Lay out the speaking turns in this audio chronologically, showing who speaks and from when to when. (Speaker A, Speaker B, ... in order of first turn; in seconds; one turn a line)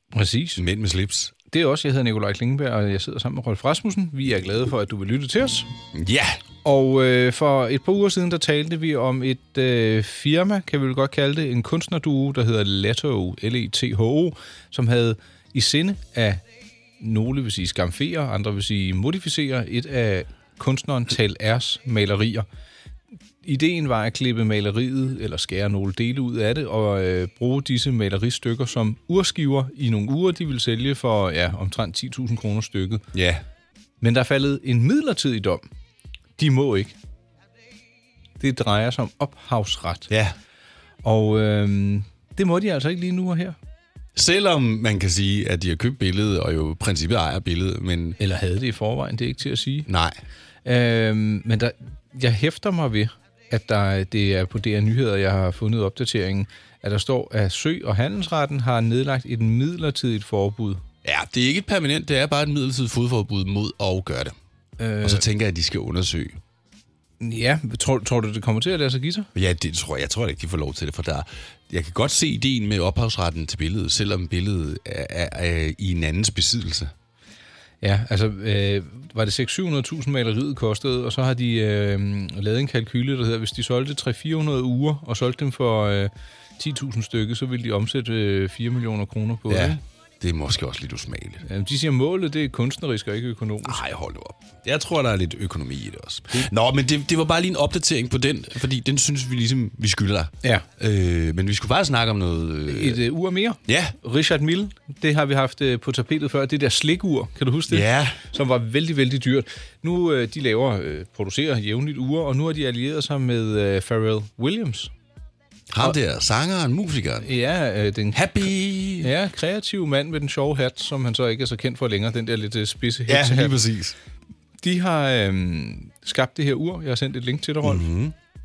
Speaker A: 0.1-0.6
Speaker B: 0.6-1.3
Speaker A: 1.5-5.7
Speaker B: 5.9-6.4
Speaker A: 6.6-16.4
Speaker A: 17.0-22.5
Speaker A: 23.4-33.0
Speaker B: 33.1-33.4
Speaker A: 34.0-35.6
Speaker A: 36.4-37.0
Speaker A: 38.4-40.1
Speaker B: 40.1-40.4
Speaker A: 41.0-43.6
Speaker B: 44.2-48.2
Speaker A: 48.2-49.9
Speaker B: 49.9-50.2
Speaker A: 50.6-60.8
Speaker B: 61.0-64.4
Speaker A: 64.8-65.2
Speaker B: 65.0-66.4
Speaker A: 67.2-69.3
Speaker B: 69.3-76.9
Speaker A: 77.8-89.8
Speaker B: 89.5-91.4
Speaker A: 91.4-93.8
Speaker B: 93.6-103.0
Speaker A: 102.7-114.9
Speaker B: 103.7-104.0
Speaker B: 107.7-108.2
Speaker B: 115.7-117.3
Speaker A: 117.2-118.3
Speaker B: 118.1-119.1
Speaker A: 119.0-123.6
Speaker B: 123.1-124.0
Speaker A: 124.6-127.8
Speaker B: 127.6-128.2